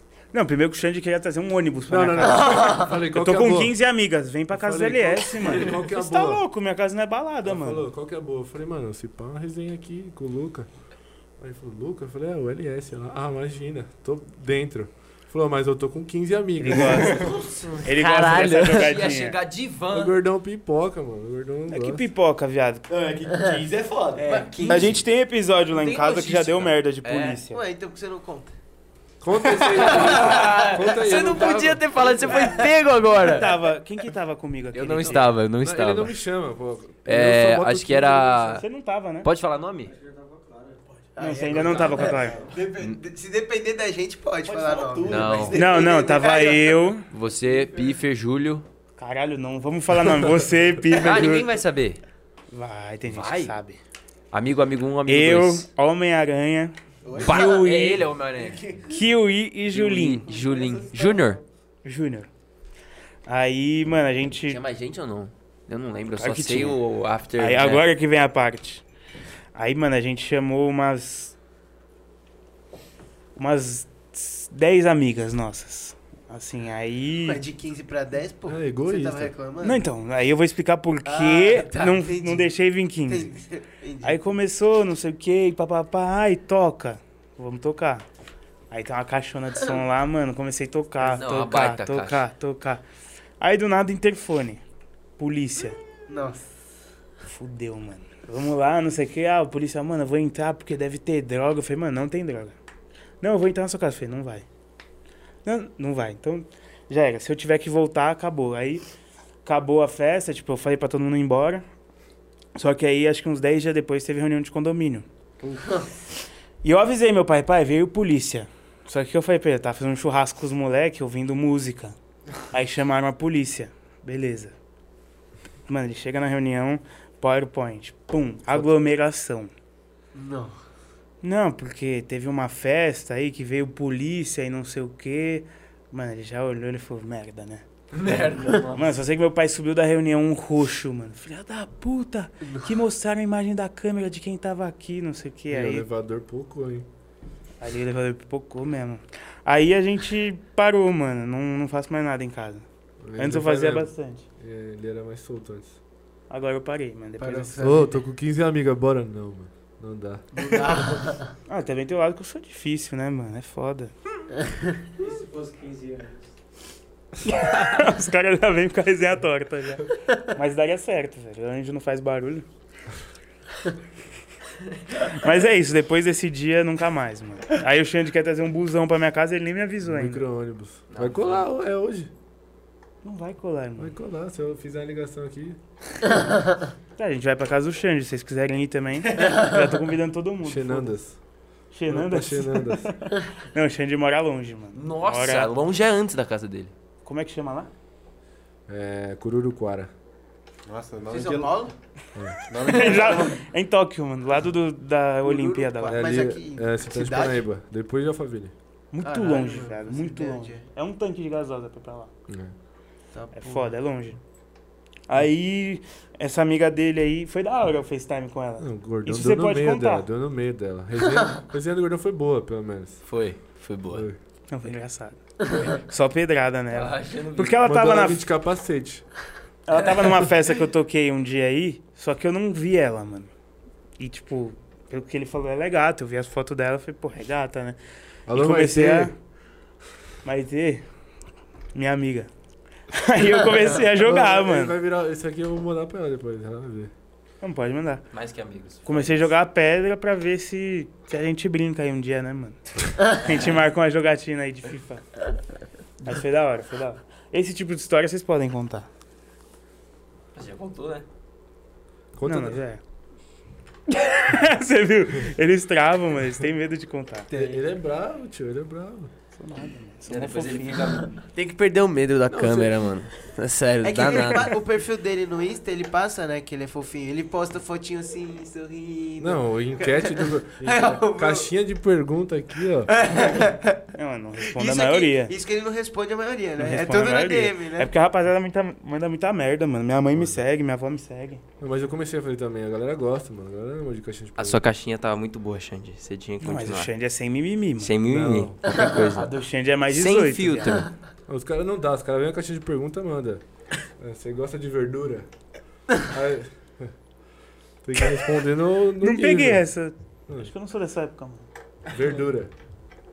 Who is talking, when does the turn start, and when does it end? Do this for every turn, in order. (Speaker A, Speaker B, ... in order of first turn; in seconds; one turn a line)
Speaker A: 0.3-7.8
Speaker B: 1.9-3.9
Speaker B: 4.5-6.5
Speaker B: 7.4-17.3
Speaker A: 16.6-19.4
Speaker C: 17.2-20.2
Speaker D: 17.9-18.9
Speaker B: 19.9-22.0
Speaker A: 21.7-22.9
Speaker E: 22.9-24.6
Speaker F: 24.2-24.9
Speaker A: 24.7-27.6
Speaker C: 25.7-27.4
Speaker F: 27.5-28.6
Speaker B: 29.2-32.5
Speaker C: 29.8-31.0
Speaker D: 29.8-33.5
Speaker C: 32.0-32.6
Speaker A: 33.1-35.3
Speaker C: 34.7-36.1
Speaker B: 35.6-38.6
Speaker C: 37.0-38.6
Speaker A: 38.6-39.3
Speaker C: 39.2-39.9
Speaker E: 39.8-42.9
Speaker F: 41.1-46.9
Speaker A: 41.2-42.4
Speaker E: 44.4-46.1
Speaker C: 45.1-45.5
Speaker A: 45.5-47.0
Speaker C: 47.1-48.6
Speaker E: 47.2-48.0
Speaker A: 49.0-51.5
Speaker C: 51.0-52.0
Speaker A: 52.5-53.8
Speaker C: 53.0-53.5
Speaker C: 54.3-55.6
Speaker A: 55.1-58.1
Speaker E: 57.0-57.4
Speaker C: 57.2-58.6
Speaker E: 58.6-58.8
Speaker A: 58.9-60.3
Speaker C: 59.7-61.4
Speaker E: 60.3-61.4
Speaker A: 61.8-62.3
Speaker A: 63.3-64.6
Speaker C: 64.5-67.8
Speaker A: 66.2-66.8
Speaker A: 67.3-68.8
Speaker A: 69.5-71.3
Speaker A: 73.3-77.4
Speaker F: 77.2-79.8
Speaker B: 78.5-79.3
Speaker A: 79.6-83.4
Speaker F: 81.0-84.3
Speaker A: 84.0-88.0
Speaker A: 88.7-92.8
Speaker C: 91.0-92.2
Speaker A: 93.4-94.6
Speaker A: 95.2-95.8
Speaker F: 96.1-96.5
Speaker A: 97.3-102.5
Speaker A: 103.2-104.4
Speaker A: 105.4-108.9
Speaker A: 109.4-111.7
Speaker A: 112.5-115.1
Speaker A: 116.6-124.5
Speaker A: 125.7-129.5
Speaker F: 130.1-130.5
Speaker A: 131.2-137.6
Speaker B: 138.0-138.7
Speaker A: 138.5-145.8
Speaker B: 145.5-146.8
Speaker A: 147.6-154.2
Speaker B: 153.0-155.8
Speaker A: 156.3-157.8
Speaker F: 157.2-158.0
Speaker B: 157.6-160.3
Speaker F: 160.4-161.2
Speaker A: 161.4-163.9
Speaker E: 165.0-166.3
Speaker A: 167.3-172.4
Speaker A: 175.0-180.2
Speaker B: 179.8-182.1
Speaker C: 180.9-181.5
Speaker A: 183.0-183.9
Speaker B: 183.8-185.6
Speaker A: 187.0-195.5
Speaker B: 190.4-192.9
Speaker C: 194.7-196.7
Speaker A: 197.0-197.7
Speaker B: 198.7-199.9
Speaker G: 200.7-201.6
Speaker F: 201.1-201.7
Speaker B: 202.1-202.4
Speaker G: 202.4-203.4
Speaker A: 202.6-206.2
Speaker F: 205.2-207.4
Speaker B: 205.8-208.5
Speaker A: 208.9-212.1
Speaker F: 209.0-210.6
Speaker B: 212.3-212.6
Speaker F: 213.1-213.7
Speaker A: 213.3-214.2
Speaker A: 215.1-220.1
Speaker B: 218.6-224.2
Speaker C: 223.0-224.1
Speaker A: 224.5-228.2
Speaker C: 226.7-227.6
Speaker B: 227.6-229.3
Speaker A: 229.7-233.3
Speaker A: 234.0-239.1
Speaker B: 238.3-239.2
Speaker A: 240.2-240.9
Speaker A: 241.7-242.3
Speaker A: 242.9-244.7
Speaker B: 244.0-246.9
Speaker A: 247.4-248.2
Speaker C: 248.1-249.3
Speaker A: 248.8-258.9
Speaker C: 260.3-261.0
Speaker B: 262.1-262.6
Speaker A: 262.2-262.8
Speaker A: 263.9-267.3
Speaker B: 267.3-269.1
Speaker A: 269.4-271.1
Speaker C: 270.1-271.2
Speaker D: 271.3-274.5
Speaker B: 272.3-272.8
Speaker F: 273.8-281.5
Speaker B: 279.2-283.0
Speaker F: 282.9-283.8
Speaker A: 283.9-285.3
Speaker F: 284.4-287.9
Speaker A: 286.6-291.4
Speaker B: 290.1-290.4
Speaker B: 291.6-294.6
Speaker C: 294.4-296.9
Speaker A: 296.4-297.9
Speaker C: 297.8-301.0
Speaker B: 298.1-298.9
Speaker A: 299.2-300.9
Speaker B: 301.2-307.2
Speaker B: 307.8-310.5
Speaker A: 309.0-311.5
Speaker B: 311.9-312.5